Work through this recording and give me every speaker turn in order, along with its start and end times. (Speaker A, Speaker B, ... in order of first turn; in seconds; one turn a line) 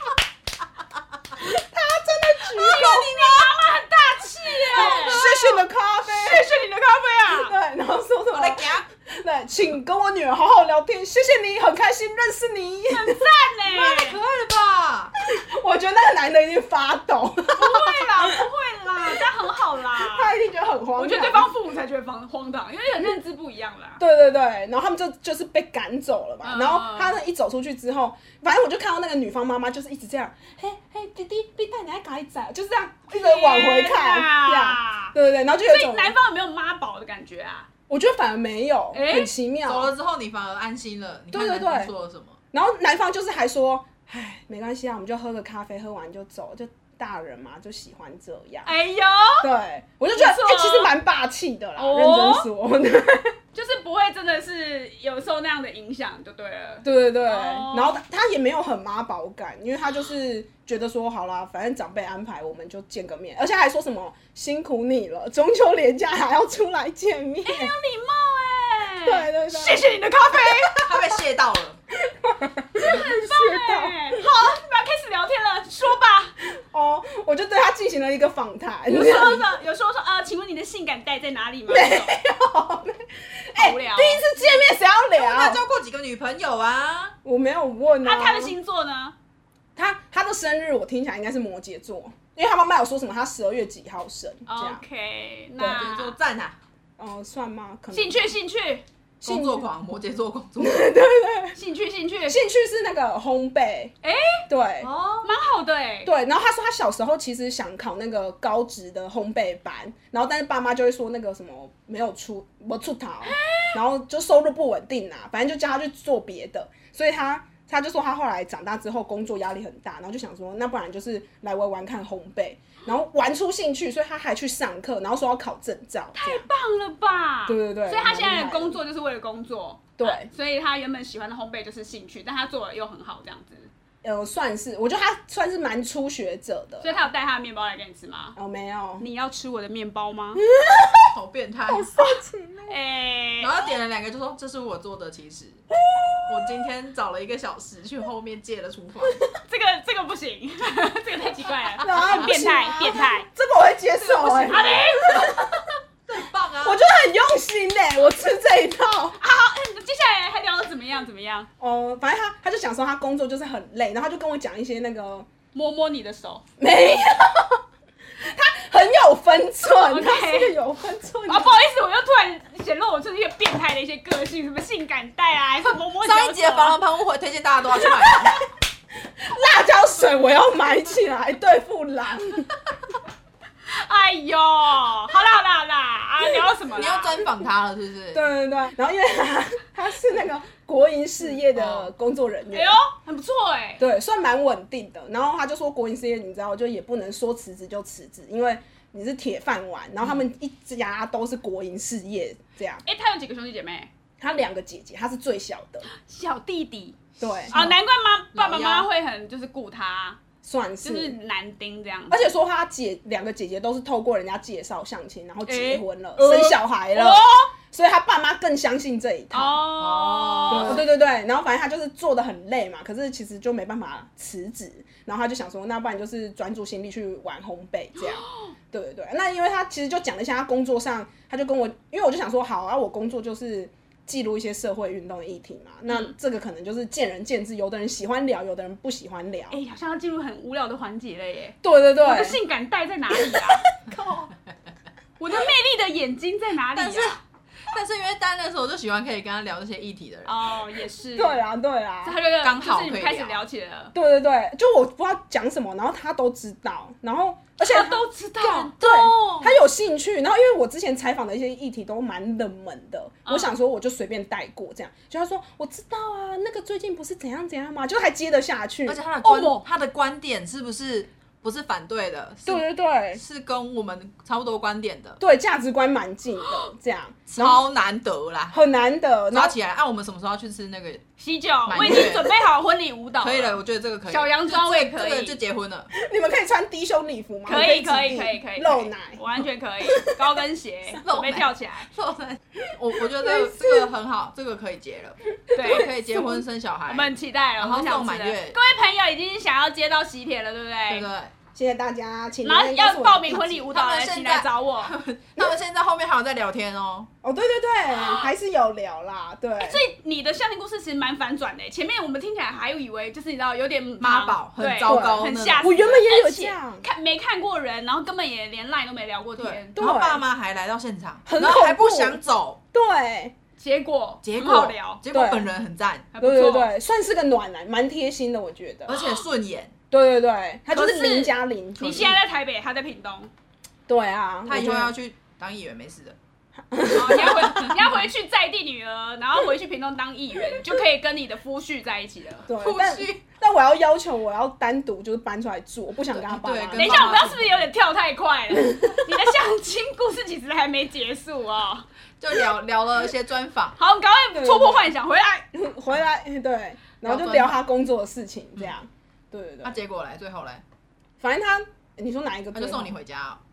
Speaker A: 1.4-3.3
Speaker B: 2.5-5.3
Speaker A: 4.7-6.6
Speaker C: 4.9-5.5
Speaker B: 6.0-7.5
Speaker A: 7.3-13.2
Speaker C: 8.3-8.8
Speaker B: 12.9-14.2
Speaker C: 13.8-15.1
Speaker A: 15.2-18.5
Speaker B: 17.5-20.3
Speaker A: 19.9-21.5
Speaker B: 20.9-24.0
Speaker A: 24.0-36.1
Speaker B: 26.4-27.2
Speaker B: 33.1-37.7
Speaker A: 37.9-39.9
Speaker B: 38.9-39.3
Speaker C: 39.6-42.4
Speaker A: 41.3-41.9
Speaker A: 42.5-48.7
Speaker B: 48.6-49.5
Speaker A: 49.4-53.4
Speaker B: 50.1-50.9
Speaker B: 51.8-52.5
Speaker B: 53.5-58.0
Speaker A: 56.8-67.7
Speaker B: 67.4-70.9
Speaker A: 69.0-70.7
Speaker C: 70.8-71.8
Speaker A: 72.0-74.3
Speaker B: 72.8-76.3
Speaker A: 76.5-79.5
Speaker B: 78.9-82.2
Speaker A: 81.7-85.6
Speaker B: 83.5-84.3
Speaker C: 85.2-87.1
Speaker A: 87.2-88.5
Speaker B: 88.0-89.1
Speaker A: 89.8-94.8
Speaker B: 94.5-96.2
Speaker C: 95.6-96.5
Speaker A: 97.0-98.3
Speaker B: 97.9-98.8
Speaker C: 99.2-100.8
Speaker A: 99.2-99.7
Speaker A: 100.6-101.6
Speaker B: 101.5-102.4
Speaker A: 102.3-103.9
Speaker B: 104.0-104.4
Speaker A: 104.5-104.9
Speaker C: 104.8-105.3
Speaker B: 105.2-106.1
Speaker A: 106.0-126.5
Speaker B: 113.2-113.8
Speaker B: 126.1-133.7
Speaker A: 127.5-128.8
Speaker A: 130.0-130.3
Speaker A: 134.0-137.0
Speaker B: 136.8-138.3
Speaker A: 138.3-139.1
Speaker B: 139.0-140.4
Speaker A: 140.5-141.1
Speaker C: 141.1-141.9
Speaker A: 141.7-142.7
Speaker B: 142.7-143.6
Speaker C: 143.4-145.6
Speaker A: 145.9-146.5
Speaker C: 146.2-149.2
Speaker B: 149.5-153.3
Speaker A: 151.8-155.7
Speaker C: 151.9-152.3
Speaker B: 154.0-155.3
Speaker C: 156.1-156.8
Speaker A: 156.6-159.2
Speaker B: 159.2-161.5
Speaker A: 161.6-165.3
Speaker B: 165.5-166.4
Speaker A: 166.6-167.6
Speaker A: 168.2-171.5
Speaker B: 169.8-170.5
Speaker B: 171.3-176.8
Speaker C: 176.0-178.4
Speaker A: 177.8-178.4
Speaker A: 179.2-182.5
Speaker B: 183.7-187.2
Speaker C: 186.7-188.3
Speaker A: 188.1-192.8
Speaker C: 191.5-191.9
Speaker B: 192.5-193.8
Speaker A: 193.8-202.8
Speaker B: 202.8-203.9
Speaker A: 204.2-205.8
Speaker B: 205.9-210.2
Speaker A: 207.2-207.6
Speaker C: 207.5-207.7
Speaker C: 208.3-208.9
Speaker A: 210.4-211.2
Speaker B: 210.8-212.2
Speaker A: 212.1-219.6
Speaker B: 215.5-217.5
Speaker B: 219.3-220.8
Speaker C: 219.8-220.8
Speaker A: 220.5-239.6
Speaker B: 228.0-228.5
Speaker B: 239.5-243.6
Speaker A: 241.6-242.4
Speaker A: 243.2-244.3
Speaker B: 245.2-247.2
Speaker C: 246.7-247.2
Speaker C: 247.7-250.3
Speaker B: 250.2-251.4
Speaker A: 251.2-252.2
Speaker B: 252.0-253.9
Speaker C: 252.4-253.4
Speaker A: 253.9-269.0
Speaker B: 257.6-258.7
Speaker C: 258.8-259.5
Speaker B: 263.2-263.5
Speaker C: 268.9-275.2
Speaker B: 269.2-269.6
Speaker A: 272.4-273.2
Speaker A: 275.2-277.6
Speaker C: 277.3-278.6
Speaker A: 278.5-279.6
Speaker C: 279.3-281.0
Speaker B: 281.2-285.4
Speaker C: 281.7-282.4
Speaker C: 283.2-285.9
Speaker A: 285.9-289.2
Speaker B: 287.4-291.9
Speaker A: 289.9-290.2
Speaker C: 291.0-298.6
Speaker A: 293.0-293.9
Speaker A: 295.5-296.4
Speaker B: 295.5-295.9
Speaker B: 296.9-301.1
Speaker C: 300.9-301.3
Speaker A: 301.5-303.7
Speaker B: 302.4-304.9
Speaker C: 303.7-307.1
Speaker A: 307.2-309.8
Speaker B: 307.9-308.3
Speaker B: 309.6-319.7
Speaker C: 314.0-315.8
Speaker A: 314.9-316.9
Speaker C: 319.4-322.6
Speaker A: 319.8-320.2
Speaker A: 321.2-322.2
Speaker A: 322.7-323.3
Speaker B: 323.6-325.0
Speaker C: 324.2-326.1
Speaker A: 325.1-325.5
Speaker B: 326.1-326.7
Speaker A: 326.2-329.2
Speaker C: 328.9-329.7
Speaker A: 329.9-332.1
Speaker B: 330.7-333.3
Speaker C: 331.8-332.2
Speaker A: 333.9-334.9
Speaker C: 334.4-336.1
Speaker A: 336.7-337.8
Speaker B: 336.8-342.5
Speaker A: 342.5-347.1
Speaker C: 342.5-343.2
Speaker C: 346.1-347.7
Speaker B: 346.7-351.9
Speaker A: 348.8-349.1
Speaker C: 352.2-353.8
Speaker B: 353.8-355.4
Speaker A: 354.3-354.9
Speaker A: 355.5-359.8
Speaker C: 357.0-357.5
Speaker C: 359.6-360.6
Speaker A: 361.2-362.9
Speaker C: 362.5-363.4